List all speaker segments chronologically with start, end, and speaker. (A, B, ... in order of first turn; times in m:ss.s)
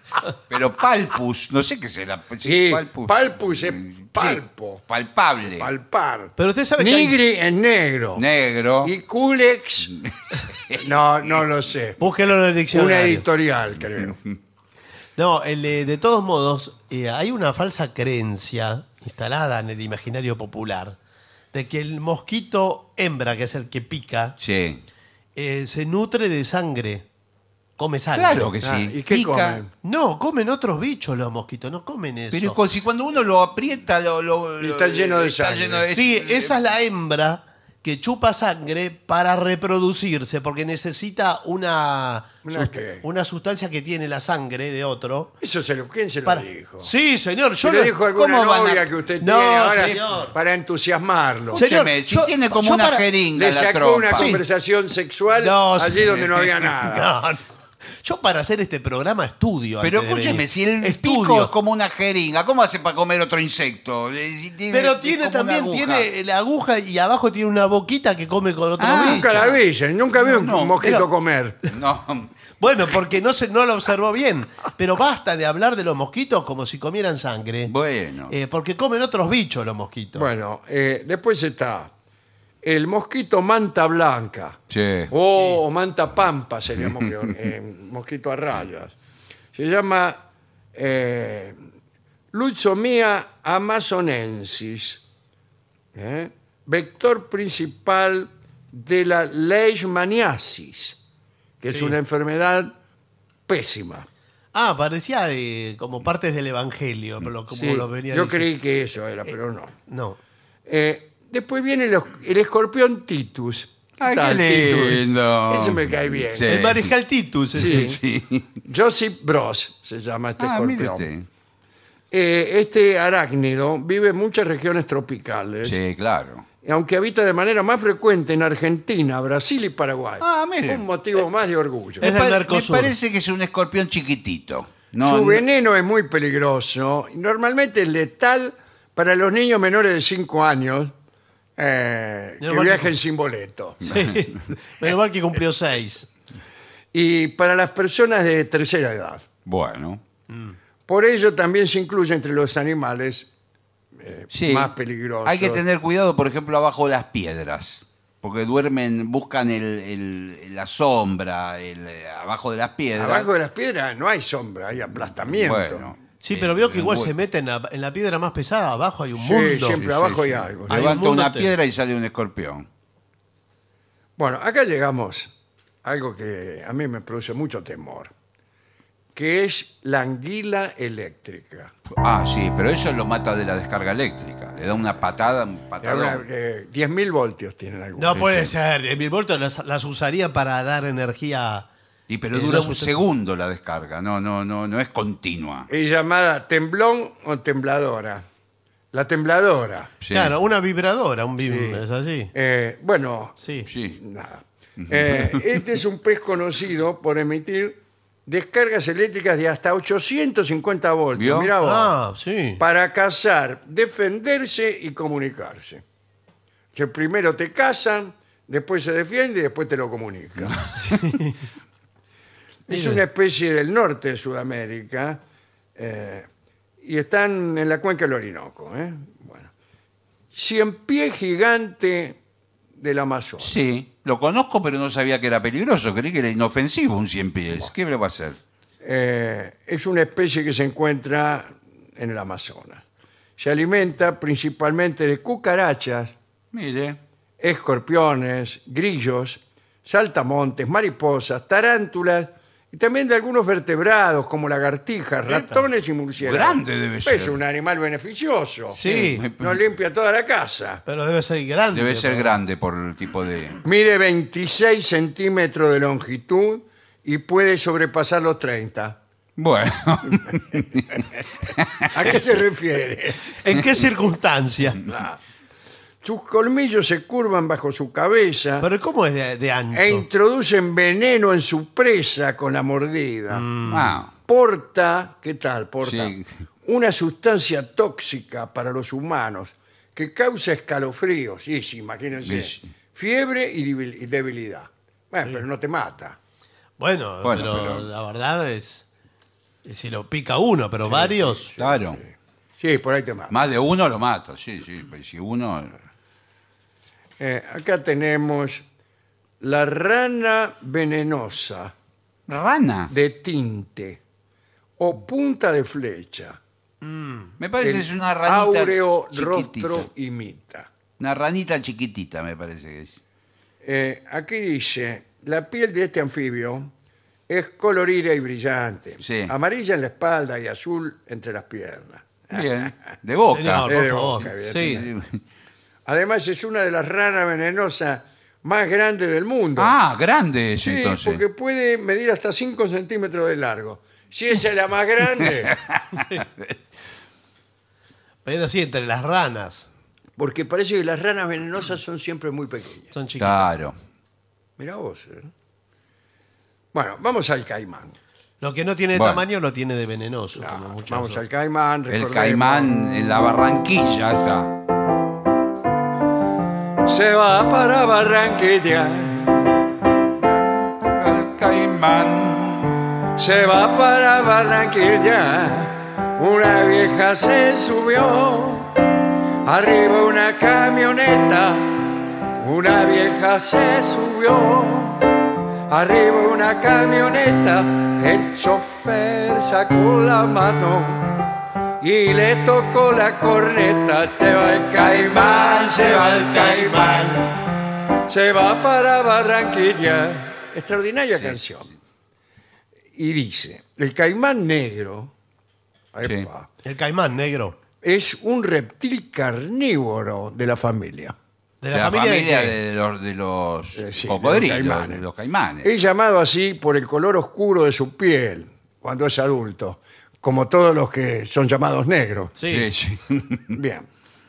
0:00.5-0:05.7 A
0:02.4-0:04.8 B
0:05.5-0:08.2 B
0:06.4-0:07.2 C
0:08.2-0:08.9 A
0:08.8-0:09.9 B
0:09.9-0:11.4 A
0:10.7-0:12.0 B
0:12.0-0:13.2 C
0:12.7-0:14.2 B
0:15.2-0:21.0 C
0:21.5-0:24.4 C
0:24.4-0:24.8 A
0:25.4-0:27.0 C
0:27.8-0:28.5 C
0:28.1-0:29.6 A
0:28.6-0:29.7 B
0:29.8-0:32.6 C
0:32.3-0:36.6 A
0:34.6-0:35.9 B
0:35.9-0:45.3 C
0:42.4-0:43.0 B
0:45.4-0:46.9 B
0:46.2-0:47.9 C
0:47.6-0:51.6 B
0:48.1-0:48.9 A
0:49.2-0:50.3 C
0:51.5-0:53.1 C
0:51.5-0:54.4 A
0:53.3-0:57.1 B
0:54.1-0:54.4 C
0:55.4-0:57.4 C
0:58.0-1:01.5 C
0:59.8-1:06.1 A
1:04.7-1:09.6 C
1:08.8-1:09.6 A
1:08.9-1:11.6 B
1:10.2-1:10.8 A
1:10.8-1:11.1 C
1:11.7-1:12.3 A
1:12.6-1:17.7 C
1:17.6-1:18.3 A
1:18.3-1:20.3 C
1:20.1-1:21.9 B
1:22.6-1:28.9 B
1:24.7-1:25.1 A
1:29.5-1:30.2 B
1:30.7-1:31.6 B
1:32.3-1:35.0 B
1:35.9-1:41.0 B
1:41.6-1:42.7 B
1:41.7-1:42.0 C
1:43.5-1:44.0 B
1:44.5-1:48.4 C
1:47.5-1:49.8 B
1:49.9-1:50.2 C
1:50.7-1:56.5 B
1:54.0-1:56.9 A
1:56.4-1:57.9 C
1:57.5-1:58.0 B
1:57.5-1:58.6 A
1:58.6-2:01.0 B
2:00.4-2:01.3 A
2:02.1-2:05.8 B
2:05.6-2:06.4 A
2:06.6-2:12.1 B
2:10.2-2:10.8 A
2:12.0-2:12.9 C
2:12.0-2:15.4 A
2:15.0-2:20.9 B
2:21.6-2:23.8 B
2:22.4-2:22.9 C
2:23.8-2:26.1 C
2:23.8-2:24.2 A
2:26.9-2:29.2 B
2:29.4-2:30.0 A
2:30.3-2:30.6 C
2:30.9-2:33.3 B
2:34.0-2:35.6 B
2:34.3-2:34.7 A
2:35.2-2:43.3 A
2:43.0-2:45.9 B
2:45.3-2:47.2 A
2:46.2-2:49.8 C
2:49.2-2:50.9 B
2:49.5-2:52.7 A
2:50.7-2:51.5 C
2:54.2-2:55.3 B
2:55.8-2:58.1 B
2:59.1-3:01.7 B
3:01.9-3:06.2 A
3:05.8-3:08.2 B
3:08.0-3:11.7 C
3:08.1-3:08.5 A
3:12.1-3:15.7 A
3:12.3-3:13.0 C
3:15.7-3:18.2 B
3:18.9-3:19.9 B
3:20.0-3:20.3 A
3:20.1-3:22.3 C
3:21.4-3:21.8 B
3:22.3-3:31.9 B
3:23.4-3:23.7 C
3:23.7-3:24.0 A
3:24.8-3:25.4 A
3:31.1-3:31.5 A
3:31.6-3:32.6 C
3:32.6-3:35.8 B
3:36.7-3:40.6 B
3:40.7-3:41.4 C
3:42.7-3:45.2 B
3:42.7-3:43.0 C
3:45.8-3:46.3 B
3:46.8-3:49.5 B
3:50.3-3:52.2 B
3:52.8-3:53.5 B
3:53.4-3:58.4 A
3:58.8-4:02.8 B
4:03.4-4:06.1 B
4:06.5-4:07.0 A
4:07.4-4:20.8 B
4:15.3-4:15.6 C
4:16.2-4:17.4 A
4:18.7-4:19.2 C
4:18.8-4:19.6 A
4:20.8-4:22.4 C
4:21.7-4:23.6 A
4:23.6-4:29.0 B
4:29.4-4:32.2 A
4:31.8-4:33.4 B
4:33.4-4:34.8 C
4:34.8-4:35.2 B
4:36.0-4:38.7 B
4:38.6-4:40.0 C
4:39.7-4:43.4 B
4:43.3-4:44.0 C
4:43.7-4:44.1 A
4:44.3-4:56.2 B
4:45.8-4:46.3 A
4:52.2-4:52.6 A
4:56.8-4:58.8 C
4:57.2-4:57.9 A
4:59.6-5:01.5 C
5:00.8-5:03.4 B
5:01.6-5:02.0 A
5:03.3-5:05.7 A
5:07.2-5:08.6 B
5:09.4-5:11.7 B
5:12.3-5:12.9 A
5:12.9-5:14.0 B
5:14.8-5:16.4 B
5:16.8-5:17.3 C
5:17.4-5:19.9 A
5:17.6-5:20.7 B
5:21.0-5:23.0 A
5:23.6-5:26.7 B
5:27.3-5:32.8 B
5:29.0-5:29.3 A
5:32.3-5:33.7 A
5:33.3-5:34.9 C
5:33.6-5:34.9 B
5:34.6-5:35.2 A
5:35.8-5:39.8 B
5:39.6-5:41.2 A
5:40.6-5:45.6 B
5:45.7-5:46.2 A
5:48.2-5:49.7 C
5:50.2-5:52.9 B
5:52.9-5:53.5 C
5:53.2-5:53.8 A
5:54.6-5:55.3 B
5:56.7-5:58.0 B
5:58.4-6:01.2 C
5:58.9-5:59.2 A
6:00.4-6:02.7 B
6:01.9-6:04.6 A
6:06.8-6:09.5 B
6:10.2-6:12.9 A
6:13.2-6:18.7 B
6:19.4-6:25.0 B
6:25.7-6:31.2 B
6:31.8-6:37.4 B
6:34.9-6:35.4 A
6:35.4-6:37.2 C
6:38.1-6:41.7 B
6:42.9-6:45.1 B
6:45.9-6:46.5 B
6:46.0-6:46.3 A
6:46.6-6:47.6 C
6:47.8-6:51.1 B
6:51.6-6:52.6 C
6:51.7-6:55.7 A
6:53.7-6:55.0 B
6:55.6-7:02.3 B
7:02.4-7:02.7 C
7:02.5-7:03.6 A
7:03.5-7:03.8 B